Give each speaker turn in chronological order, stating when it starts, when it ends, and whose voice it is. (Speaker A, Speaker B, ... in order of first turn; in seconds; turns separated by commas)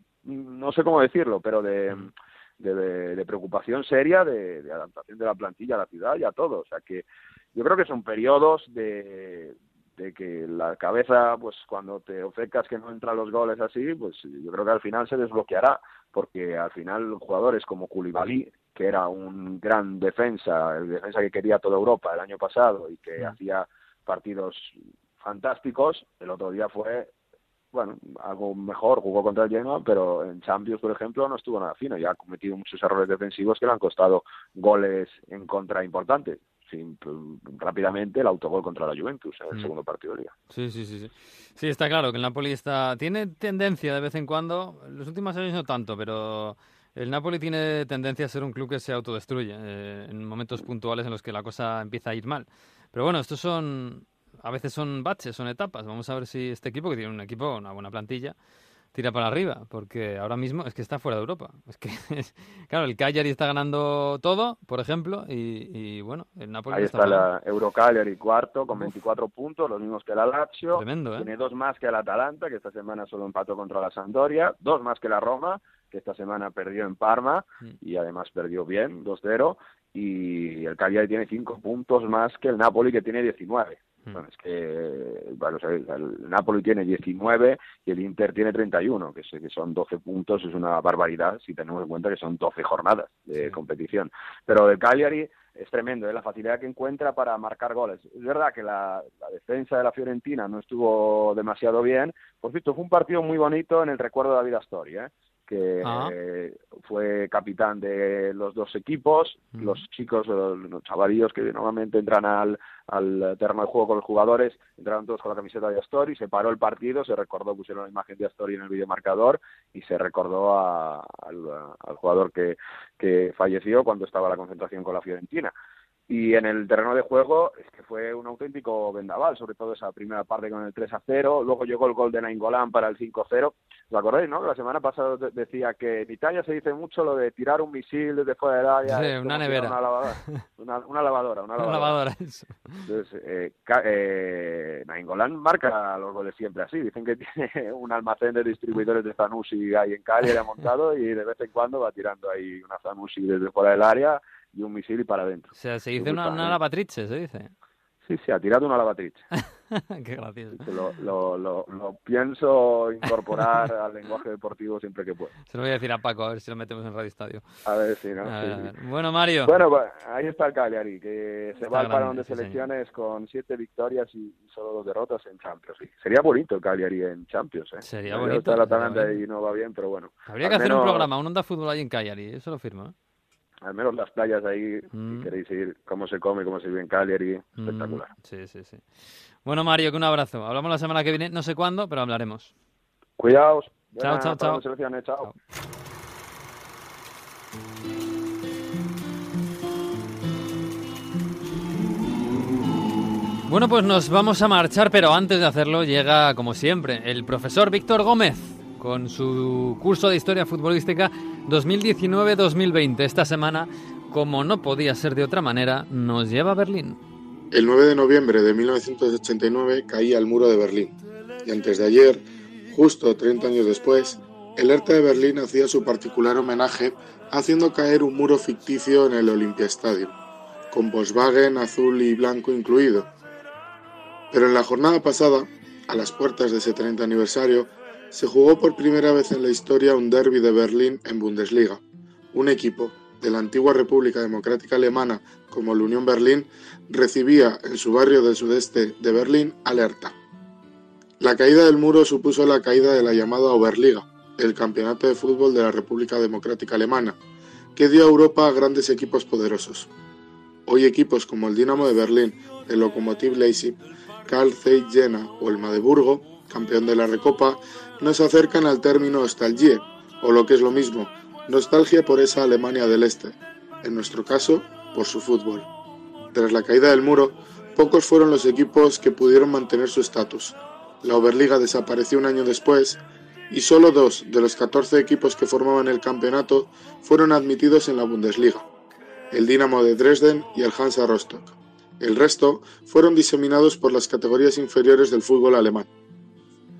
Speaker A: 0.2-27.1, Speaker A: 27.7-40.3, Speaker B: 40.5-58.4, Speaker B: 58.9-67.3, Speaker A: 66.7-125.5, Speaker B: 70.7-71.3, Speaker B: 105.8-106.1, Speaker A: 126.1-142.0, Speaker B: 138.9-140.4, Speaker B: 141.6-142.8, Speaker A: 142.8-156.6, Speaker B: 155.6-157.5, Speaker A: 158.1-159.2, Speaker B: 159.4-160.7, Speaker A: 160.6-165.3, Speaker B: 165.5-167.4, Speaker A: 167.7-168.7, Speaker B: 168.2-169.5, Speaker A: 169.4-181.1, Speaker B: 171.7-172.6, Speaker B: 177.8-179.2, Speaker B: 180.3-182.9, Speaker A: 183.6-188.1, Speaker B: 184.9-185.3, Speaker B: 187.6-188.9, Speaker B: 189.4-192.5, Speaker A: 193.2-195.3, Speaker B: 194.0-194.6, Speaker B: 203.5-217.0, Speaker C: 217.5-230.2, Speaker C: 230.7-233.1, Speaker C: 234.3-241.8, Speaker C: 242.3-250.2, Speaker C: 251.2-257.2, Speaker C: 257.8-259.9, Speaker C: 260.7-275.7, Speaker C: 276.3-288.7, Speaker C: 289.3-295.9